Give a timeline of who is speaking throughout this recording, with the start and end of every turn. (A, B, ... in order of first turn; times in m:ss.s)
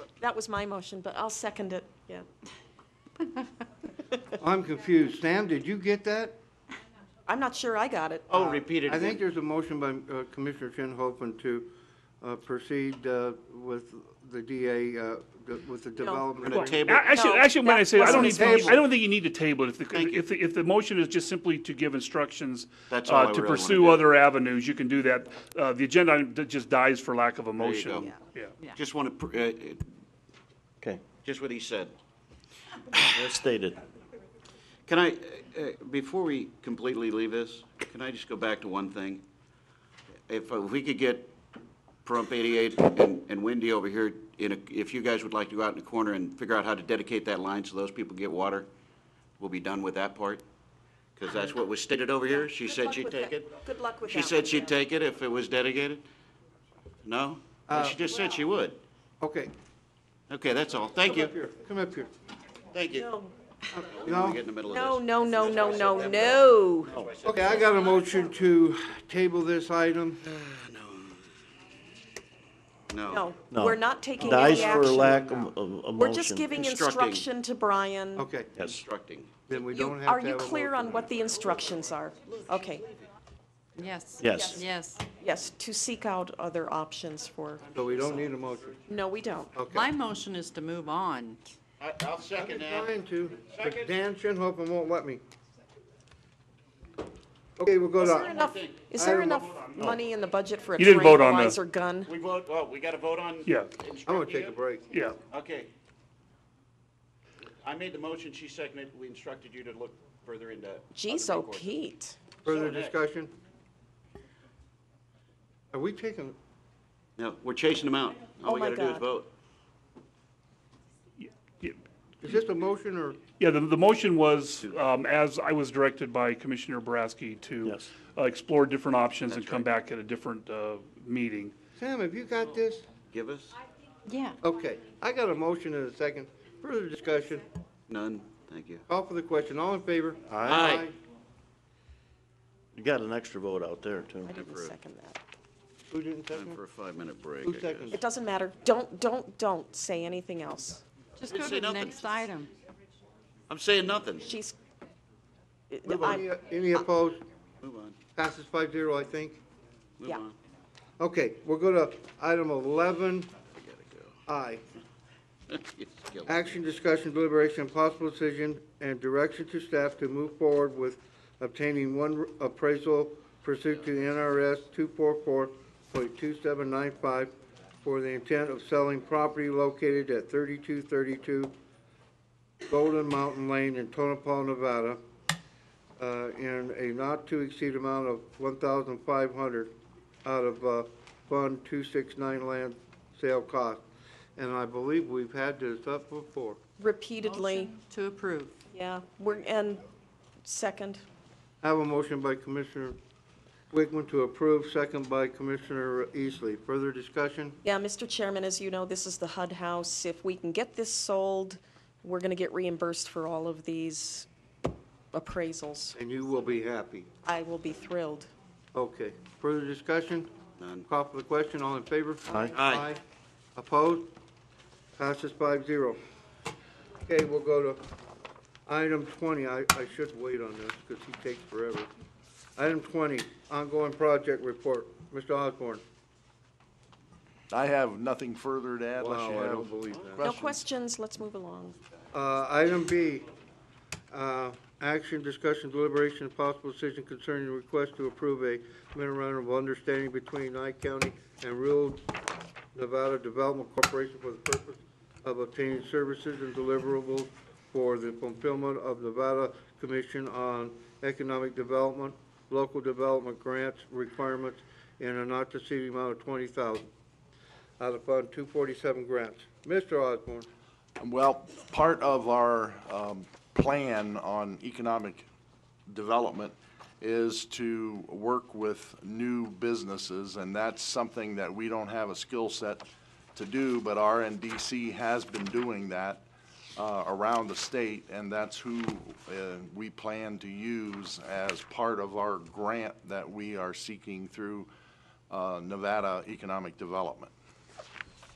0:00.2-0:02.2 A
0:04.4-0:06.4 B
0:07.3-0:08.2 A
0:08.3-0:09.2 C
0:08.3-0:16.9 B
0:16.0-0:16.2 A
0:16.4-0:17.2 C
0:16.5-0:28.5 D
0:17.1-0:18.8 A
0:18.0-0:18.8 B
0:19.9-0:20.2 C
0:22.9-0:24.1 C
0:27.6-0:28.1 C
0:28.6-0:29.8 C
0:31.2-0:32.0 C
0:33.0-0:33.8 E
0:34.9-0:39.2 C
0:40.3-0:41.3 C
0:42.0-0:48.7 C
0:49.4-0:50.4 C
0:51.2-0:56.0 C
0:52.4-0:54.8 A
0:57.0-0:58.8 C
0:57.7-0:58.0 B
0:59.2-0:59.5 B
1:00.3-1:01.4 C
1:01.0-1:02.1 B
1:02.7-1:03.1 C
1:03.0-1:03.3 A
1:03.7-1:04.4 B
1:03.8-1:08.3 C
1:04.7-1:07.0 A
1:06.9-1:10.2 B
1:10.2-1:11.2 C
1:12.9-1:13.3 C
1:13.1-1:15.4 A
1:13.5-1:16.5 E
1:14.3-1:15.3 C
1:16.0-1:18.3 A
1:16.5-1:17.2 C
1:18.2-1:18.6 B
1:18.6-1:18.8 E
1:18.6-1:19.3 C
1:19.5-1:21.1 B
1:19.5-1:22.8 A
1:22.3-1:23.0 C
1:23.8-1:25.0 F
1:24.2-1:24.6 E
1:25.2-1:27.6 A
1:27.7-1:28.4 C
1:27.7-1:28.8 B
1:28.9-1:29.5 A
1:29.6-1:29.9 B
1:29.7-1:31.4 F
1:31.8-1:32.9 C
1:32.4-1:35.2 B
1:33.4-1:33.9 C
1:37.6-1:38.4 B
1:38.0-1:42.1 A
1:38.1-1:39.7 C
1:39.0-1:39.4 B
1:40.8-1:41.6 D
1:42.1-1:44.6 C
1:43.5-1:43.7 D
1:44.1-1:44.9 B
1:44.9-1:45.2 D
1:45.3-1:45.7 C
1:47.6-1:51.8 C
1:51.0-1:52.2 A
1:52.4-1:53.0 C
1:52.4-1:53.3 B
1:55.7-1:56.4 B
1:57.2-1:59.3 C
1:58.4-1:59.0 A
2:01.2-2:01.8 D
2:02.2-2:03.2 B
2:03.3-2:11.5 D
2:07.6-2:07.9 E
2:09.3-2:09.7 C
2:11.8-2:12.8 B
2:13.1-2:13.6 C
2:14.1-2:14.4 F
2:14.4-2:17.5 B
2:17.9-2:18.8 C
2:18.9-2:21.0 B
2:20.3-2:20.7 E
2:20.4-2:20.9 C
2:22.8-2:24.3 E
2:24.2-2:25.2 A
2:24.3-2:24.7 C
2:25.9-2:26.6 B
2:26.3-2:28.0 C
2:27.4-2:28.0 B
2:27.9-2:30.8 A
2:31.2-2:32.5 F
2:31.2-2:32.2 C
2:33.5-2:34.3 C
2:34.2-2:34.6 A
2:35.7-2:36.8 A
2:35.9-2:37.2 B
2:37.6-2:38.0 C
2:38.2-2:39.4 B
2:40.0-2:40.4 C
2:41.0-2:43.3 B
2:43.5-2:44.1 C
2:44.3-2:44.6 B
2:45.5-2:46.6 C
2:46.3-2:57.3 B
2:57.8-3:01.5 B
3:02.7-3:05.0 B
3:06.0-3:09.7 B
3:10.2-3:13.8 B
3:14.4-3:16.6 B
3:16.8-3:17.8 A
3:17.2-3:18.5 F
3:18.7-3:19.8 A
3:20.4-3:21.0 A
3:21.6-3:23.0 B
3:23.7-3:27.6 B
3:27.6-3:34.3 A
3:35.1-3:36.0 A
3:36.0-3:37.1 B
3:37.2-3:38.3 A
3:38.7-3:40.3 B
3:40.6-3:40.9 C
3:40.9-3:43.0 B
3:42.6-3:42.9 C
3:43.6-3:44.1 B
3:45.0-3:46.0 B
3:47.1-3:47.8 B
3:48.7-3:51.9 B
3:52.6-3:55.8 B
3:57.5-3:59.7 G
3:59.0-4:00.4 B
4:00.0-4:00.4 C
4:00.2-4:01.8 A
4:02.1-4:03.3 B
4:04.1-4:12.0 B
4:12.8-4:26.9 B
4:27.8-4:30.5 B
4:31.0-4:35.3 G
4:35.9-4:46.2 G
4:46.8-4:54.7 G
4:55.3-4:57.3 G